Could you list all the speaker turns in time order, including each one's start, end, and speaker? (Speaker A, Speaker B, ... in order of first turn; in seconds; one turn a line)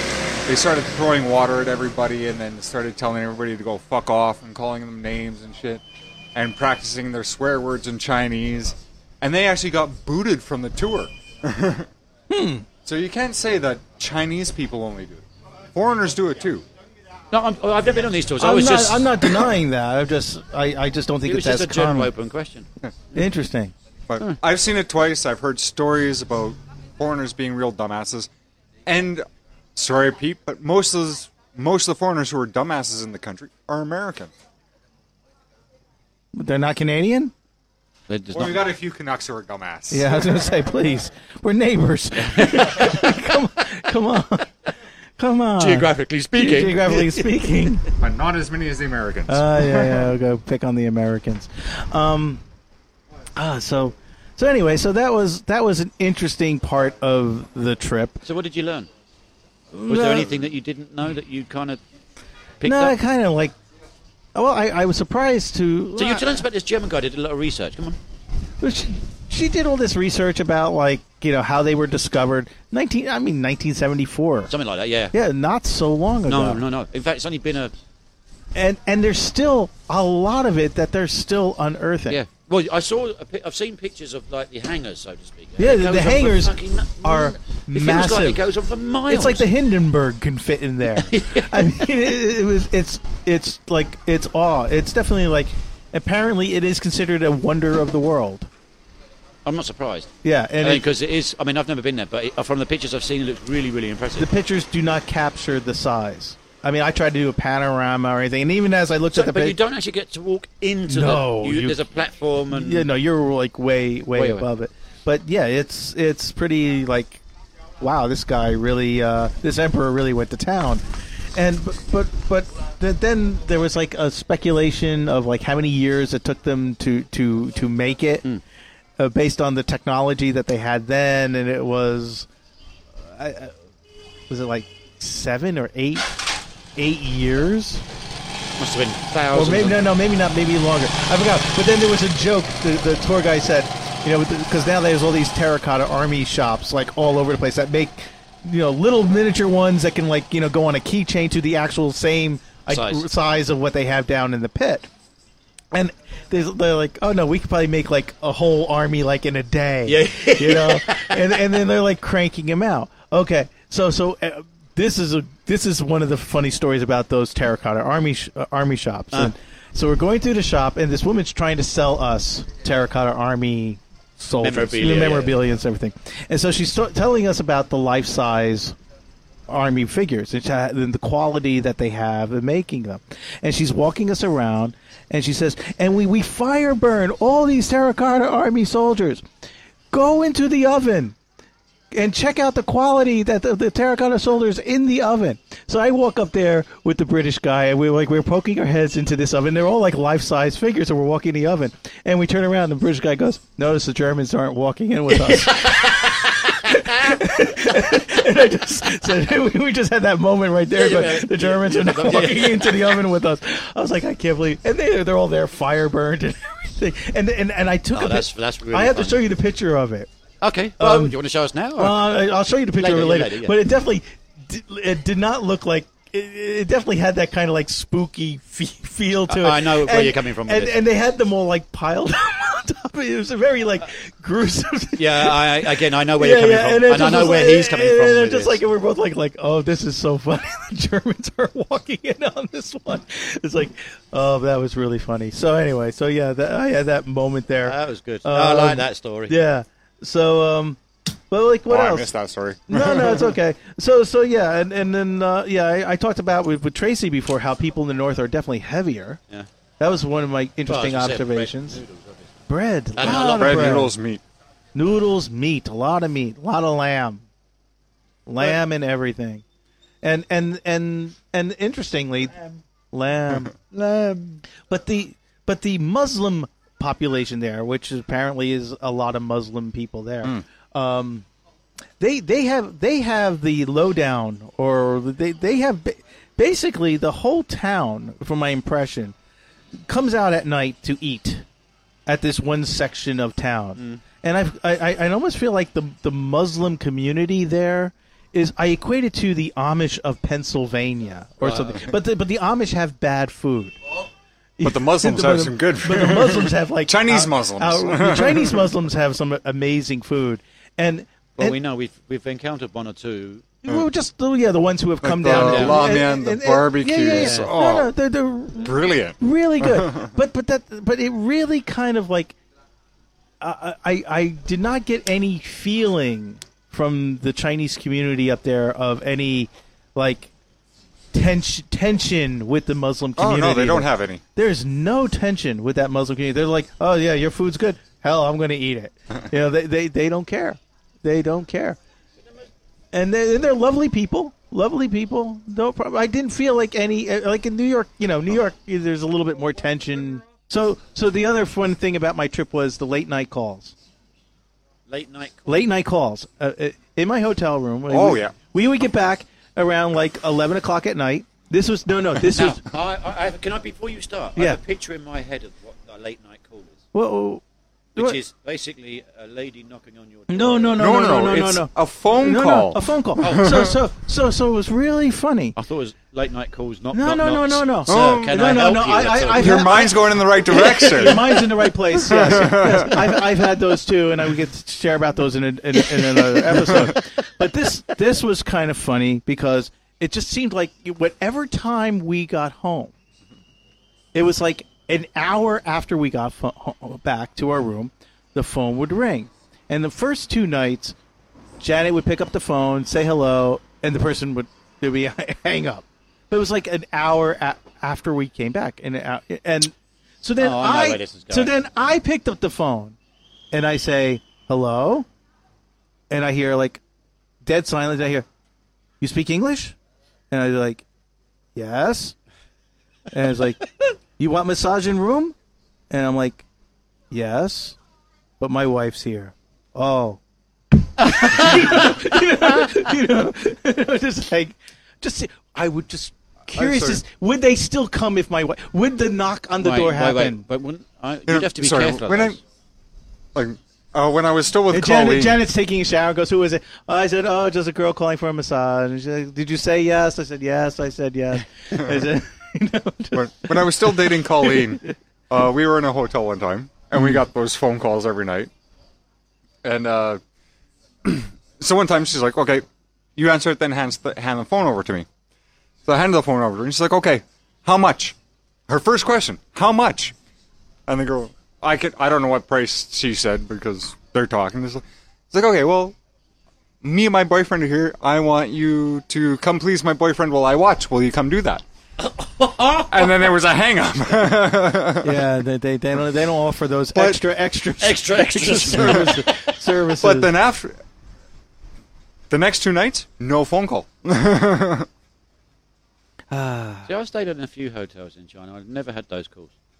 Speaker A: 0.5-5.8
Speaker A: 6.3-11.9
Speaker B: 12.3-12.7
Speaker A: 12.8-16.6
Speaker C: 17.3-19.4
Speaker B: 18.4-22.1
Speaker C: 21.3-23.2
Speaker B: 23.1-23.7
Speaker A: 24.1-28.3
Speaker A: 28.9-34.3
Speaker B: 36.3-37.3
Speaker C: 38.1-38.6
Speaker A: 38.3-40.3
Speaker B: 39.9-44.6
Speaker C: 42.2-42.9
Speaker B: 45.2-47.9
Speaker C: 45.6-47.3
Speaker A: 48.0-49.9
Speaker B: 49.3-52.4
Speaker B: 53.4-58.2
Speaker C: 58.2-58.9
Speaker B: 59.7-60.3
Speaker C: 59.9-61.8
Speaker C: 62.6-63.0
Speaker B: 62.6-63.5
Speaker B: 64.3-66.4
Speaker C: 66.0-68.0
Speaker B: 68.6-74.5
Speaker C: 74.5-75.1
Speaker B: 75.1-76.7
Speaker C: 76.3-77.7
Speaker B: 78.5-82.2
Speaker C: 82.1-89.5
Speaker B: 85.6-88.4
Speaker B: 89.1-98.5
Speaker C: 90.9-91.9
Speaker C: 99.5-100.1
Speaker B: 100.2-100.9
Speaker C: 100.6-104.3
Speaker B: 104.2-109.6
Speaker C: 109.1-112.9
Speaker B: 110.9-111.8
Speaker B: 112.5-117.2
Speaker C: 114.2-114.5
Speaker B: 117.8-120.8
Speaker B: 121.3-128.2
Speaker B: 129.0-132.3
Speaker B: 132.9-133.6
Speaker B: 134.3-136.2
Speaker B: 136.8-137.8
Speaker C: 138.6-139.9
Speaker B: 139.3-154.9
Speaker C: 152.7-153.1
Speaker B: 155.7-178.8
Speaker C: 159.9-161.3
Speaker C: 174.4-175.4
Speaker B: 179.5-189.2
Speaker B: 189.9-191.2
Speaker B: 191.9-220.1
Speaker C: 205.2-207.2
Speaker C: 210.7-213.0
Speaker C: 217.9-219.2
Speaker C: 220.4-222.0
Speaker B: 220.8-221.2
Speaker B: 221.8-250.8
Speaker C: 222.8-223.6
Speaker C: 229.3-230.8
Speaker C: 235.0-238.6
Speaker C: 247.6-249.4
Speaker B: 251.3-252.1
Speaker A: 251.7-253.3
Speaker B: 252.7-259.2
Speaker B: 259.8-261.8
Speaker C: 260.7-262.3
Speaker B: 262.5-263.9
Speaker C: 263.0-263.9
Speaker A: 263.0-264.2
Speaker B: 264.8-267.2
Speaker B: 268.3-269.4
Speaker B: 270.0-281.2
Speaker B: 282.0-289.1
Speaker B: 289.9-291.5
Speaker B: 292.1-303.8
Speaker C: 301.4-301.9
Speaker B: 304.6-311.6
Speaker A: 304.6-308.6
Speaker C: 311.4-313.5
Speaker B: 313.6-322.4
Speaker A: 315.0-317.9
Speaker C: 315.3-316.0
Speaker C: 317.1-317.5
Speaker A: 318.6-320.1
Speaker B: 323.4-330.3
Speaker B: 331.1-341.8
Speaker A: 333.2-334.2
Speaker B: 342.9-353.8
Speaker C: 354.9-355.7
Speaker B: 355.5-362.6
Speaker A: 357.9-358.4
Speaker C: 362.2-366.8
Speaker B: 366.9-367.4
Speaker C: 368.0-370.8
Speaker B: 370.3-375.6
Speaker A: 370.8-373.7
Speaker C: 373.2-373.7
Speaker C: 375.6-379.9
Speaker B: 376.9-392.9
Speaker A: 377.9-378.6
Speaker A: 379.4-383.2
Speaker C: 380.5-381.4
Speaker C: 386.1-386.6
Speaker B: 394.1-401.0
Speaker B: 401.6-413.0
Speaker C: 410.4-411.5
Speaker B: 413.5-415.1
Speaker B: 416.1-416.8
Speaker B: 417.4-418.3
Speaker B: 419.0-419.8
Speaker B: 420.3-420.8
Speaker B: 421.6-422.1
Speaker B: 423.1-425.4
Speaker B: 425.9-426.4
Speaker B: 427.1-427.8
Speaker B: 428.4-430.2
Speaker B: 431.0-440.4
Speaker C: 431.0-431.7
Speaker A: 436.5-437.0
Speaker C: 439.6-442.4
Speaker A: 441.3-442.4
Speaker A: 443.4-445.4
Speaker B: 444.7-454.8
Speaker A: 453.1-458.5
Speaker A: 459.6-460.2
Speaker A: 461.0-462.6
Speaker A: 463.2-465.1
Speaker A: 465.9-468.2
Speaker A: 468.7-470.1
Speaker A: 470.9-475.9
Speaker A: 476.8-481.6
Speaker C: 482.0-483.3
Speaker A: 482.9-485.2
Speaker B: 485.0-490.3
Speaker C: 487.8-489.6
Speaker A: 490.0-490.8
Speaker A: 492.3-494.9
Speaker B: 496.3-496.9
Speaker C: 496.9-499.5